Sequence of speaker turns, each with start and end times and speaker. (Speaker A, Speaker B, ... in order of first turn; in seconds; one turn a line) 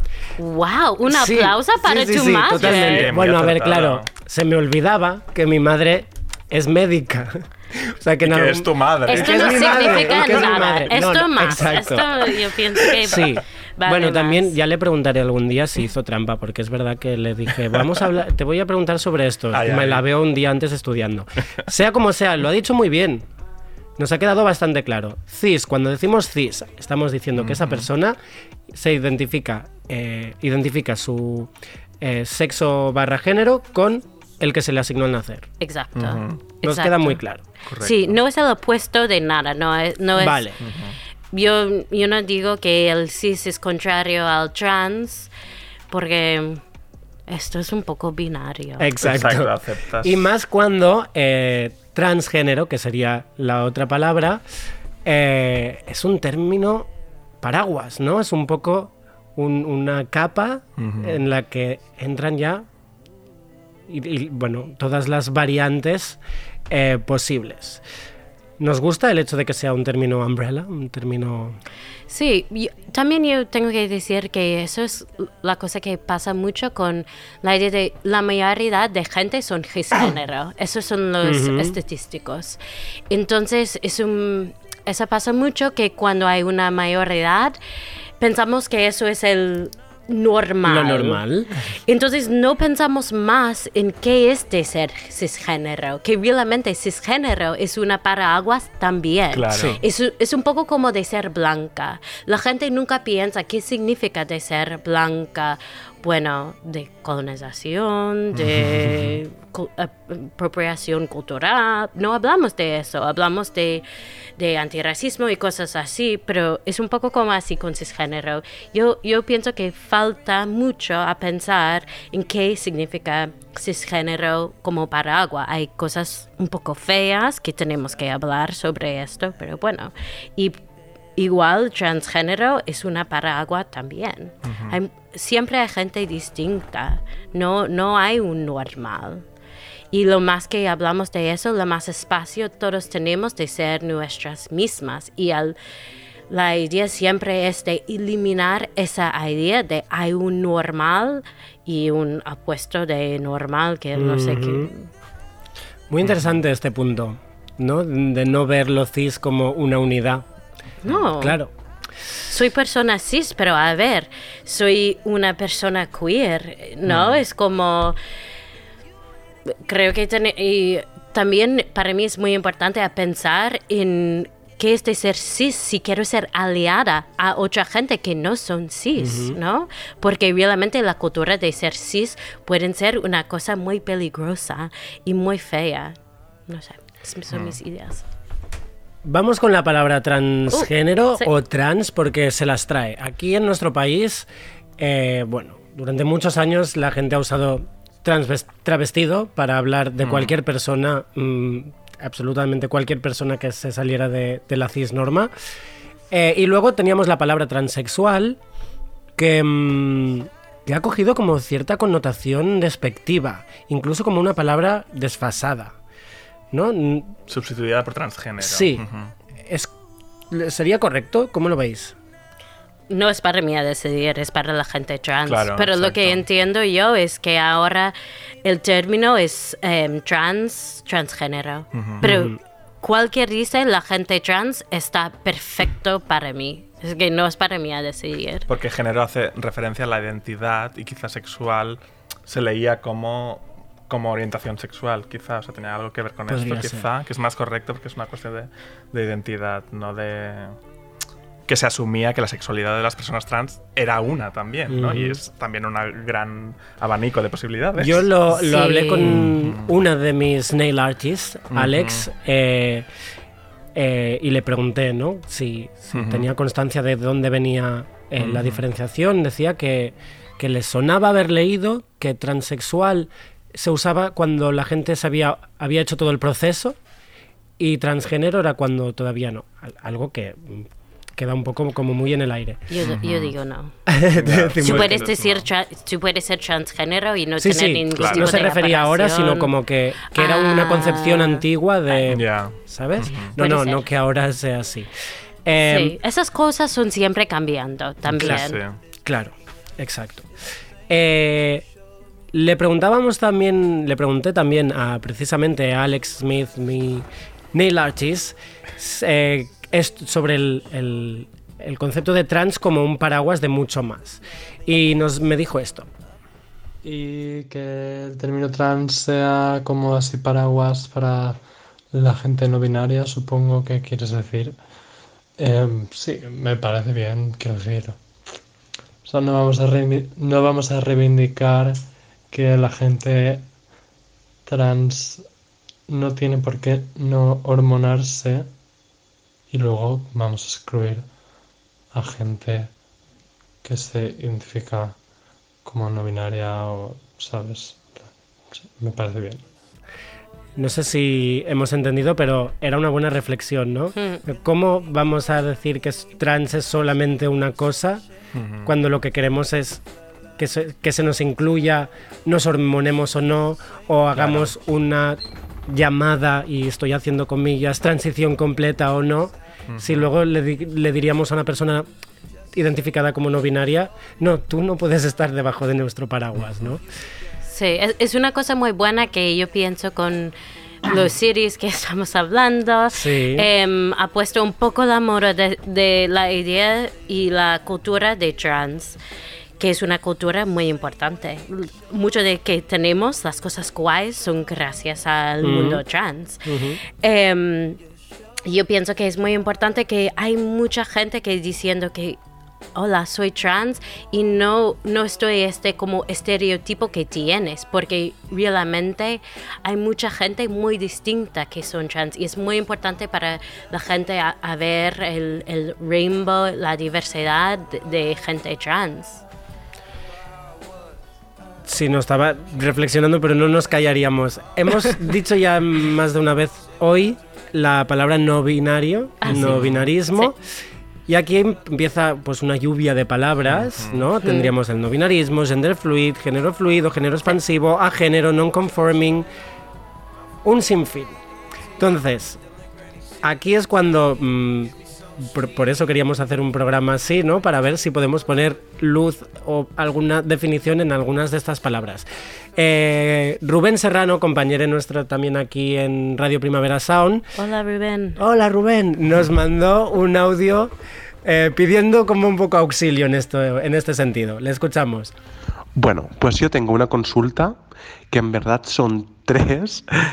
Speaker A: 0.4-3.1
Speaker B: 1.1-12.1
Speaker C: 2.5-4.1
Speaker C: 8.2-10.7
Speaker A: 9.1-14.5
Speaker B: 13.0-23.3
Speaker C: 19.5-20.0
Speaker B: 24.0-28.2
Speaker C: 27.4-27.9
Speaker B: 28.7-35.5
Speaker A: 35.6-37.2
Speaker C: 36.0-36.4
Speaker B: 36.6-37.4
Speaker C: 37.7-38.1
Speaker A: 37.8-40.4
Speaker B: 40.2-40.6
Speaker C: 40.6-41.0
Speaker A: 41.3-45.3
Speaker A: 45.9-46.6
Speaker A: 47.3-48.9
Speaker B: 48.8-54.4
Speaker C: 49.0-50.2
Speaker B: 55.0-56.9
Speaker B: 57.4-62.6
Speaker C: 60.8-61.2
Speaker B: 63.9-66.2
Speaker B: 66.7-67.8
Speaker B: 68.6-71.6
Speaker A: 72.1-87.6
Speaker B: 81.2-81.8
Speaker A: 88.2-91.2
Speaker B: 90.6-91.7
Speaker A: 91.9-113.8
Speaker C: 99.3-99.8
Speaker B: 99.5-99.8
Speaker C: 108.3-109.1
Speaker A: 114.4-130.6
Speaker A: 131.2-139.2
Speaker C: 134.4-134.8
Speaker A: 139.9-145.6
Speaker A: 146.3-154.9
Speaker B: 153.9-154.7
Speaker B: 155.9-160.2
Speaker C: 156.0-156.3
Speaker A: 160.8-161.4
Speaker B: 161.1-161.5
Speaker A: 162.3-168.0
Speaker C: 166.9-167.2
Speaker A: 169.5-185.9
Speaker B: 179.0-179.4
Speaker A: 186.5-188.0
Speaker C: 187.3-187.6
Speaker B: 189.0-205.3
Speaker A: 190.5-191.3
Speaker C: 200.0-200.3
Speaker B: 206.1-208.4
Speaker B: 209.2-215.7
Speaker B: 216.5-217.2
Speaker C: 217.3-219.1
Speaker B: 218.4-218.8
Speaker B: 219.4-219.7
Speaker B: 220.3-221.9
Speaker A: 222.9-238.5
Speaker C: 225.2-226.2
Speaker C: 231.7-232.0
Speaker B: 232.0-232.4
Speaker C: 238.5-250.6
Speaker B: 246.3-246.9
Speaker C: 251.5-258.1
Speaker B: 254.7-255.2
Speaker B: 257.8-262.9
Speaker A: 258.3-259.1
Speaker C: 259.0-259.7
Speaker C: 261.5-262.1
Speaker B: 263.7-276.8
Speaker C: 265.9-266.3
Speaker C: 268.2-268.6
Speaker B: 277.6-282.6
Speaker A: 282.7-283.7
Speaker C: 282.8-283.3
Speaker B: 283.9-285.1
Speaker C: 284.1-285.5
Speaker A: 284.6-289.5
Speaker B: 287.4-294.9
Speaker C: 287.9-288.4
Speaker A: 290.1-291.4
Speaker C: 292.1-293.3
Speaker A: 293.4-293.9
Speaker B: 295.4-295.9
Speaker A: 295.6-298.6
Speaker C: 298.1-298.8
Speaker B: 298.2-298.4
Speaker B: 299.0-300.3
Speaker B: 300.9-301.6
Speaker B: 302.3-315.9
Speaker D: 316.8-321.4
Speaker D: 321.9-324.6
Speaker D: 325.4-328.0
Speaker D: 329.0-333.5
Speaker D: 334.4-335.3
Speaker D: 335.9-338.5
Speaker D: 339.5-341.1
Speaker D: 341.9-342.7
Speaker D: 343.6-345.0
Speaker D: 345.6-349.4
Speaker B: 350.6-358.0
Speaker A: 353.9-354.2
Speaker C: 358.3-358.7
Speaker B: 358.6-359.8
Speaker B: 360.4-371.9
Speaker C: 364.1-364.5
Speaker C: 369.7-370.1
Speaker B: 372.5-376.8
Speaker C: 376.4-376.6
Speaker A: 377.4-380.3
Speaker A: 380.8-389.0
Speaker B: 382.9-383.5
Speaker A: 389.6-396.4
Speaker B: 395.4-395.8
Speaker B: 396.4-396.8
Speaker A: 397.0-397.8
Speaker A: 398.4-402.2
Speaker A: 402.7-419.2
Speaker B: 421.6-430.4
Speaker A: 429.2-429.6
Speaker C: 429.2-429.9
Speaker B: 431.1-439.3
Speaker C: 433.4-434.1
Speaker A: 434.2-434.5
Speaker B: 440.4-441.2
Speaker B: 441.8-442.4
Speaker B: 443.2-457.2
Speaker A: 457.4-458.2
Speaker B: 458.2-460.7
Speaker B: 461.2-465.1
Speaker E: 465.7-467.6
Speaker E: 468.1-469.8